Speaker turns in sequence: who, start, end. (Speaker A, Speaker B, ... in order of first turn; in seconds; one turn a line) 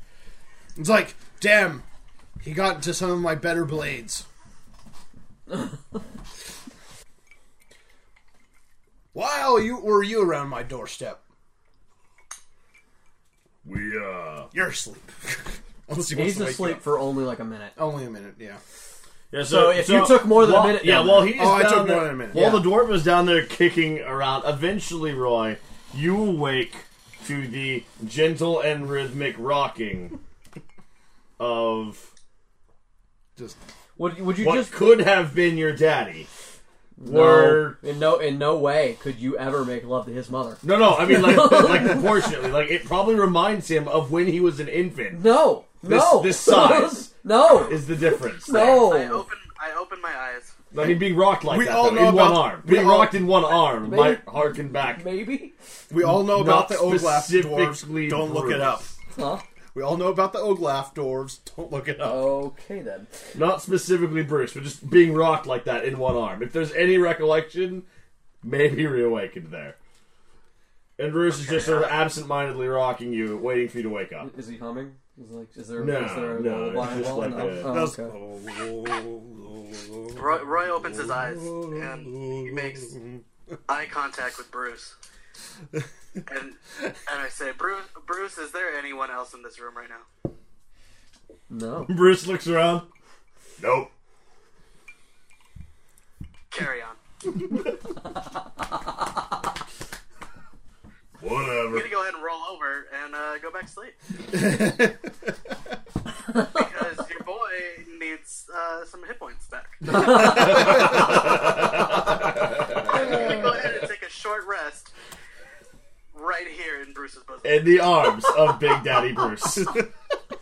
Speaker A: 0.8-1.9
Speaker A: 2.4-4.3
Speaker A: 9.1-11.2
Speaker B: 13.6-14.5
Speaker A: 14.5-16.9
Speaker C: 16.1-17.8
Speaker A: 17.8-18.6
Speaker B: 19.3-30.2
Speaker C: 19.4-21.5
Speaker A: 21.3-22.8
Speaker C: 22.4-22.6
Speaker B: 31.4-32.1
Speaker C: 34.0-34.8
Speaker B: 34.4-36.3
Speaker C: 37.0-42.3
Speaker B: 37.0-37.8
Speaker B: 40.6-48.9
Speaker C: 45.1-49.3
Speaker D: 48.5-50.5
Speaker B: 50.7-55.0
Speaker A: 51.4-53.3
Speaker C: 53.8-55.5
Speaker A: 55.9-58.9
Speaker B: 56.0-58.8
Speaker C: 59.1-59.4
Speaker A: 59.7-62.4
Speaker C: 62.0-63.1
Speaker B: 63.4-67.9
Speaker B: 68.4-69.8
Speaker B: 71.0-74.3
Speaker D: 71.3-72.0
Speaker C: 74.2-78.2
Speaker B: 75.8-77.8
Speaker A: 76.8-83.2
Speaker D: 80.2-83.0
Speaker D: 83.7-84.9
Speaker D: 86.3-90.1
Speaker C: 91.5-91.9
Speaker B: 91.9-92.9
Speaker B: 93.6-93.9
Speaker D: 96.5-97.0
Speaker B: 101.2-101.9
Speaker D: 101.7-104.0
Speaker A: 104.3-105.0
Speaker D: 106.3-110.3
Speaker B: 109.9-113.1
Speaker D: 112.7-114.9
Speaker D: 116.1-117.8
Speaker B: 117.4-119.9